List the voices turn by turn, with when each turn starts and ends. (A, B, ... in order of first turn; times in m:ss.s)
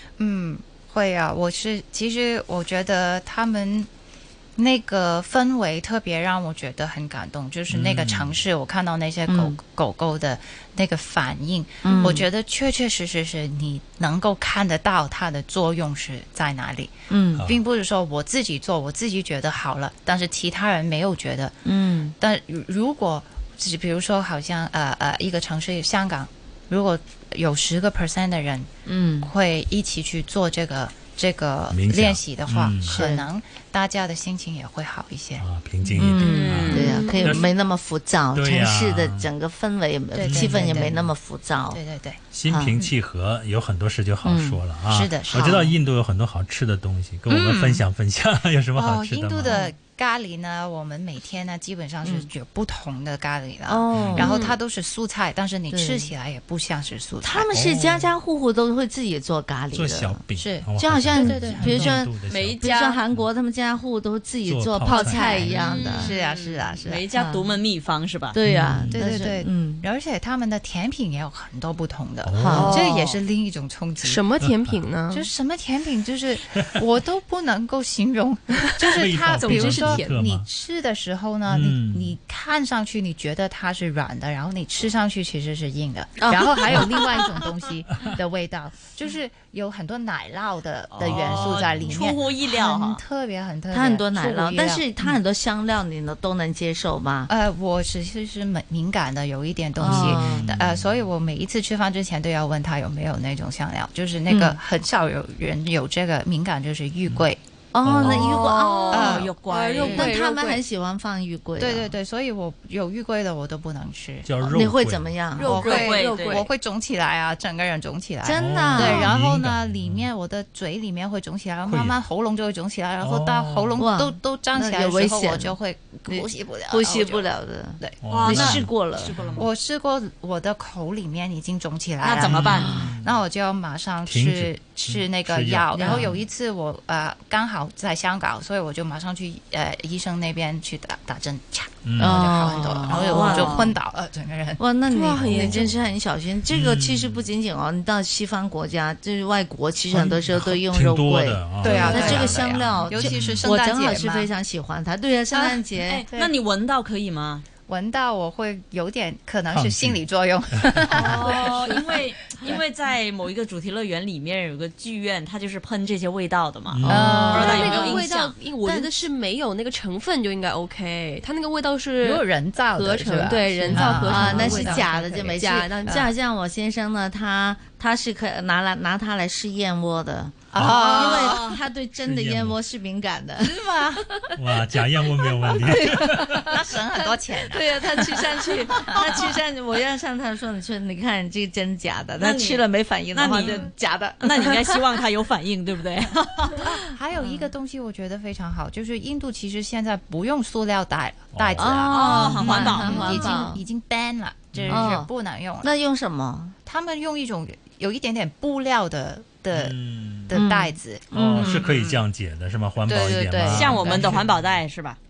0:00.2-0:03.9 A
0:04.6-0:21.6 A
0:07.7-0:08.4 B
0:09.3-0:09.6 C
0:11.8-0:12.2 C
0:17.1-0:17.4 C
0:17.3-0:17.6 B
0:21.6-0:22.1 C
0:22.2-0:28.7 A
0:28.8-0:29.3 C
0:29.2-0:35.4 A
0:31.7-0:33.0 B
0:32.9-0:33.3 C
0:35.4-0:37.5 B
0:35.9-0:41.8 C
0:36.2-0:37.1 D
0:36.6-0:37.4 E
0:38.3-0:39.3 B
0:40.1-0:41.0 A
0:40.2-0:41.1 B
0:41.7-0:42.2 A
0:42.3-0:49.7 B
0:42.5-0:42.8 C
0:44.2-0:44.6 C
0:44.9-0:45.7 A
0:47.3-0:47.8 A
0:48.8-0:57.5 A
0:53.7-0:54.5 C
0:53.9-0:54.3 B
0:55.7-0:56.1 C
0:57.2-1:00.2 C
0:57.5-0:58.1 B
0:59.7-1:03.2 B
1:00.3-1:02.0 A
1:00.8-1:06.1 C
1:02.3-1:03.0 D
1:04.4-1:05.8 B
1:04.9-1:05.2 E
1:04.9-1:07.0 A
1:05.5-1:08.4 D
1:07.1-1:07.5 C
1:08.3-1:09.8 C
1:08.4-1:09.1 B
1:08.9-1:14.3 A
1:12.2-1:12.8 B
1:12.4-1:12.8 C
1:12.5-1:13.2 E
1:14.0-1:15.3 E
1:14.4-1:14.8 B
1:15.1-1:35.2 A
1:18.9-1:20.4 B
1:19.3-1:20.2 E
1:21.5-1:22.2 B
1:26.2-1:27.3 C
1:30.9-1:33.0 D
1:31.0-1:32.0 B
1:33.7-1:37.3 C
1:37.3-1:47.4 A
1:39.8-1:40.5 C
1:39.8-1:41.0 B
1:44.3-1:44.6 C
1:47.7-1:49.2 C
1:47.8-1:48.3 B
1:48.0-1:50.6 E
1:48.3-1:50.1 D
1:48.9-1:49.3 A
1:49.8-1:51.9 C
1:51.6-1:54.3 A
1:54.2-1:55.2 B
1:54.4-1:55.5 C
1:55.4-1:56.5 E
1:55.4-2:08.6 A
1:55.4-1:56.5 D
1:58.2-1:59.1 C
1:58.3-2:00.1 B
2:01.6-2:02.0 B
2:03.0-2:03.8 B
2:03.8-2:05.6 C
2:06.1-2:09.2 C
2:08.0-2:09.5 B
2:08.1-2:09.4 D
2:09.4-2:24.6 A
2:12.0-2:12.9 D
2:12.3-2:13.2 B
2:12.4-2:13.0 C
2:14.0-2:16.1 B
2:15.8-2:16.2 C
2:21.8-2:22.4 B
2:22.0-2:23.7 C
2:22.9-2:23.6 D
2:24.6-2:36.0 C
2:24.9-2:25.7 E
2:25.2-2:25.8 B
2:26.5-2:27.3 B
2:29.9-2:33.4 B
2:31.6-2:34.3 A
2:31.8-2:32.1 E
2:35.3-2:36.3 A
2:35.9-2:37.4 D
2:37.7-2:42.6 A
2:39.5-2:40.0 B
2:40.6-2:41.1 B
2:40.9-2:48.9 D
2:40.9-2:41.8 E
2:46.7-2:47.3 B
2:46.9-2:48.0 A
2:46.9-2:56.0 E
2:52.0-2:56.1 A
2:53.7-2:54.0 B
2:53.8-3:03.6 C
3:00.5-3:01.5 A
3:00.6-3:01.0 B
3:01.0-3:01.2 E
3:02.0-3:02.6 B
3:03.4-3:04.2 A
3:04.4-3:06.6 B
3:05.4-3:06.5 C
3:05.6-3:09.2 A
3:07.4-3:15.0 C
3:12.2-3:16.6 D
3:16.5-3:17.4 C
3:16.6-3:25.7 A
3:21.3-3:21.9 B
3:21.6-3:23.6 C
3:21.9-3:23.5 D
3:24.5-3:25.0 B
3:24.7-3:25.1 C
3:25.6-3:26.6 C
3:26.6-3:29.8 A
3:29.5-3:30.4 B
3:30.3-3:32.0 A
3:30.3-3:31.6 C
3:31.1-3:34.6 B
3:32.9-3:34.2 A
3:33.5-3:35.0 D